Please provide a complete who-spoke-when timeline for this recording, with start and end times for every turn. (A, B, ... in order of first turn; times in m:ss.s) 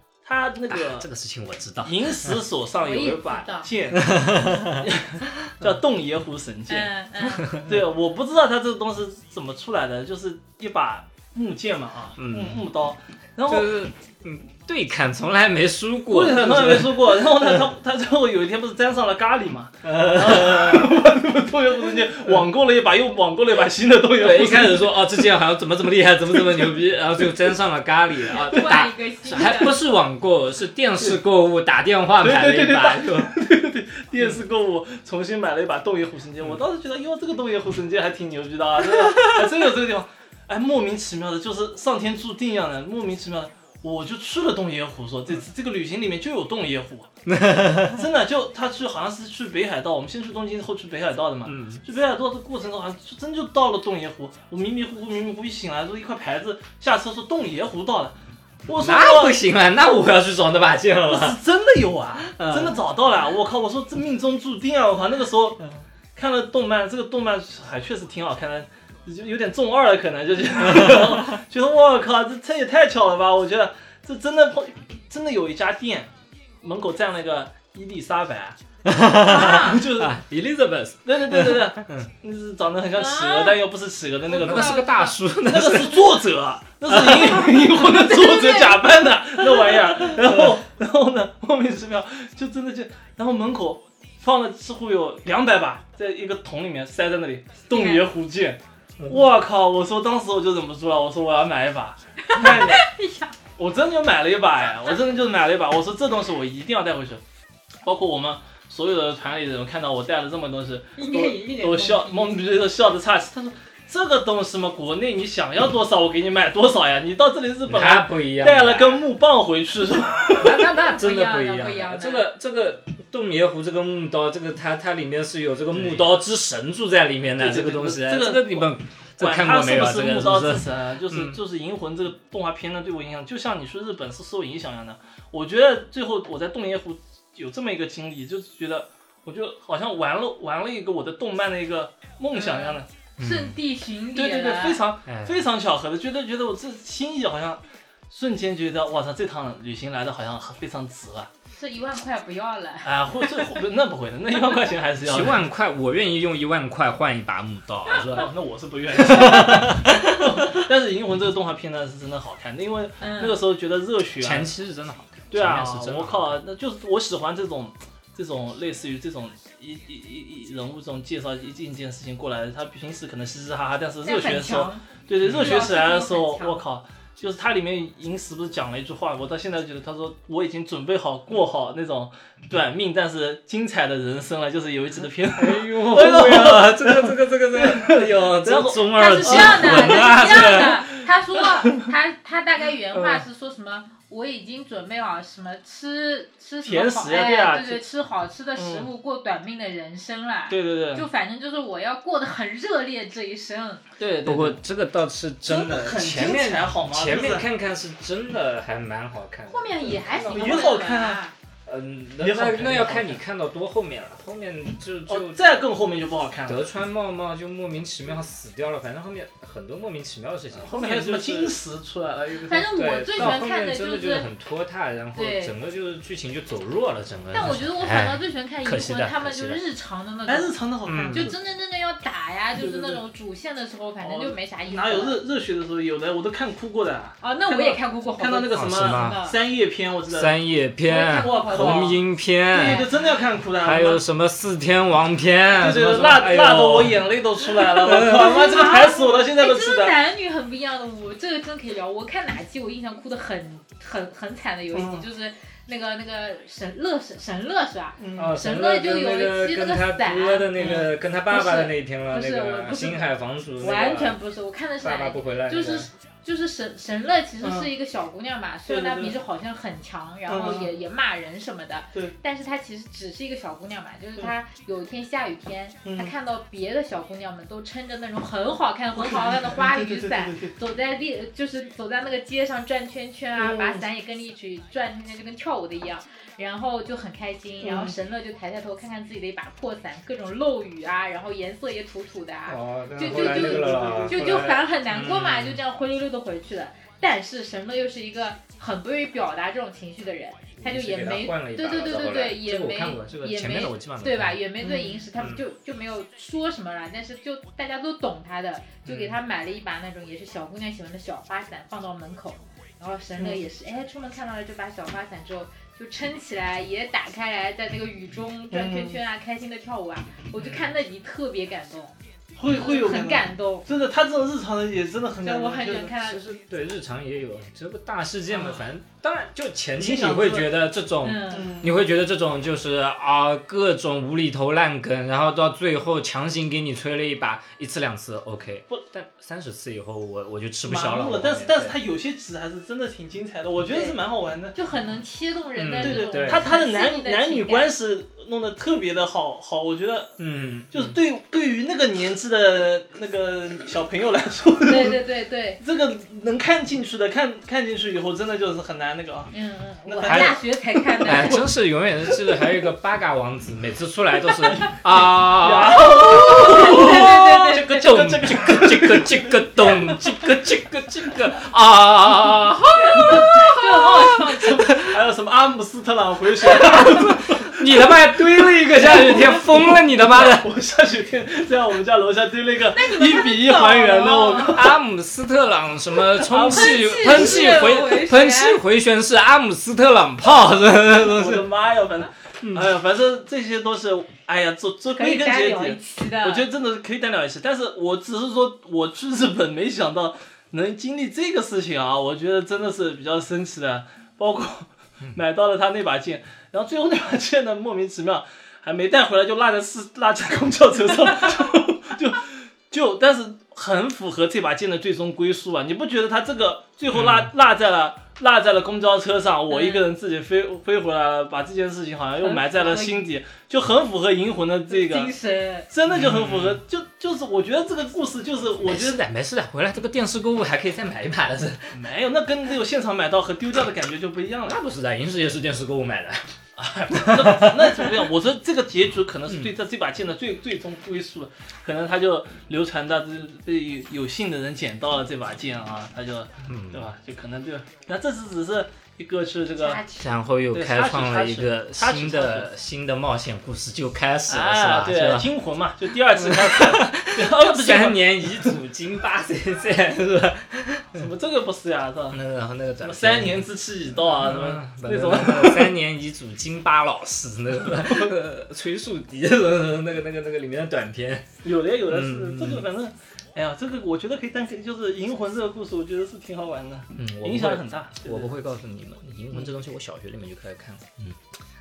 0:00.2-0:01.1 A
0:00.7-0:02.4 B
0:01.8-0:06.9 A
0:02.8-0:03.7 C
0:04.0-0:04.8 B
0:06.7-0:07.6 C
0:07.5-0:13.8 A
0:12.2-0:12.7 B
0:13.5-0:17.6 B
0:16.1-0:25.1 A
0:19.8-0:21.0 B
0:24.2-0:33.3 B
0:28.3-0:29.9 C
0:32.2-0:47.1 A
0:47.3-0:48.0 B
0:47.8-0:59.4 A
0:51.5-0:51.8 B
0:58.8-1:01.4 B
1:01.1-1:05.6 A
1:02.3-1:02.8 B
1:06.2-1:18.6 A
1:10.7-1:11.1 B
1:18.8-1:22.1 B
1:19.2-1:19.8 C
1:19.3-1:20.2 A
1:21.0-1:24.8 A
1:23.0-1:23.6 C
1:24.3-1:25.2 C
1:24.3-1:26.2 B
1:25.4-1:42.8 A
1:26.9-1:27.4 B
1:27.7-1:29.0 C
1:37.7-1:38.1 C
1:42.3-1:43.4 C
1:43.6-1:47.2 A
1:47.8-2:00.7 A
1:51.0-1:52.4 C
1:57.7-1:59.0 B
2:00.4-2:11.4 B
2:00.9-2:02.3 C
2:05.7-2:06.2 A
2:07.4-2:22.9 A
2:22.3-2:24.8 C
2:23.2-2:23.6 B
2:24.2-2:31.3 A
2:25.1-2:25.4 B
2:31.5-2:33.4 C
2:32.8-2:35.4 A
2:35.0-2:38.3 B
2:37.9-2:44.5 A
2:39.0-2:40.5 B
2:43.0-2:43.4 C
2:44.2-2:46.4 B
2:45.3-3:10.9 A
2:54.0-2:56.6 C
2:55.2-2:55.6 B
3:05.4-3:10.8 B
3:09.0-3:23.8 C
3:11.4-3:11.9 A
3:12.9-3:13.2 A
3:16.6-3:17.8 A
3:18.6-3:18.9 A
3:20.5-3:21.1 A
3:24.0-3:24.6 A
3:24.2-3:30.8 B
3:25.4-3:27.5 A
3:29.5-3:31.3 C
3:30.3-3:31.2 A
3:31.7-3:35.4 B
3:32.2-3:33.2 A
3:35.1-3:36.6 A
3:36.5-3:41.6 B
3:40.6-3:42.7 A
3:42.4-3:44.3 C
3:42.7-3:49.6 B
3:45.1-3:45.5 C
3:47.3-3:50.6 C
3:50.3-3:51.4 A
3:50.8-3:51.3 B
3:51.1-3:55.2 C
3:52.6-3:53.0 A
3:54.0-4:00.4 A
3:57.2-3:59.4 C
3:58.5-3:59.2 B
4:00.1-4:02.9 B
4:00.9-4:02.0 C
4:01.0-4:04.0 A
4:02.5-4:03.2 C
4:03.6-4:08.5 B
4:05.5-4:10.0 A
4:08.0-4:23.1 C
4:14.7-4:15.0 A
4:18.0-4:18.3 A
4:18.2-4:24.2 B
4:20.6-4:20.9 A
4:23.6-5:23.7 C
4:24.8-4:25.9 B
4:27.4-4:27.7 A
4:28.7-4:29.2 A
4:30.3-4:30.7 A
4:35.8-4:36.1 A
4:39.0-4:40.6 A
4:43.3-4:43.8 A
4:47.6-4:47.9 A
4:52.5-4:55.6 B
4:53.0-4:54.4 A
5:00.6-5:04.4 B
5:04.6-5:05.0 A
5:05.2-5:05.4 B
5:08.8-5:09.2 B
5:18.5-5:19.0 A
5:22.4-5:25.9 A
5:25.2-5:26.2 C
5:26.0-5:41.8 B
5:29.8-5:30.6 A
5:31.0-5:31.6 C
5:31.3-5:31.8 A
5:40.6-5:44.6 A
5:43.7-5:44.0 C
5:44.5-5:47.7 C
5:45.6-5:46.5 B
5:45.8-5:50.2 A
5:50.2-5:51.0 B
5:50.7-5:55.1 A
5:54.6-5:55.6 C
5:55.6-5:59.3 A
5:59.3-6:01.4 C
5:59.8-6:01.5 A
6:00.1-6:00.4 B
6:01.0-6:07.1 B
6:02.2-6:02.5 A
6:04.4-6:10.1 A
6:05.8-6:07.9 C
6:07.7-6:13.8 B
6:12.8-6:14.9 C
6:13.0-6:13.6 A
6:14.5-6:17.9 A
6:16.5-6:20.5 B
6:18.6-6:24.8 A
6:22.7-6:24.6 C
6:24.5-6:31.5 B
6:26.2-6:28.6 C
6:31.0-7:05.1 A
6:32.4-6:32.7 B
6:34.9-6:36.5 C
6:56.9-6:57.3 B
6:59.5-6:59.9 C
7:02.2-7:03.1 C
7:04.7-7:05.7 C
7:05.7-7:09.0 A
7:05.9-7:06.6 B
7:08.7-7:11.8 B
7:11.7-7:14.6 A
7:14.5-7:16.3 B
7:16.6-7:29.8 A
7:16.9-7:17.9 B
7:26.4-7:26.9 B
7:29.6-7:30.1 C
7:30.0-7:35.3 B
7:30.5-7:32.5 A
7:34.3-7:38.6 A
7:36.1-7:41.1 B
7:41.0-7:42.2 A
7:42.1-7:43.5 B
7:42.8-7:45.8 A
7:44.1-7:51.3 B
7:51.4-7:58.3 A
7:51.9-7:52.7 B
7:57.0-8:01.2 B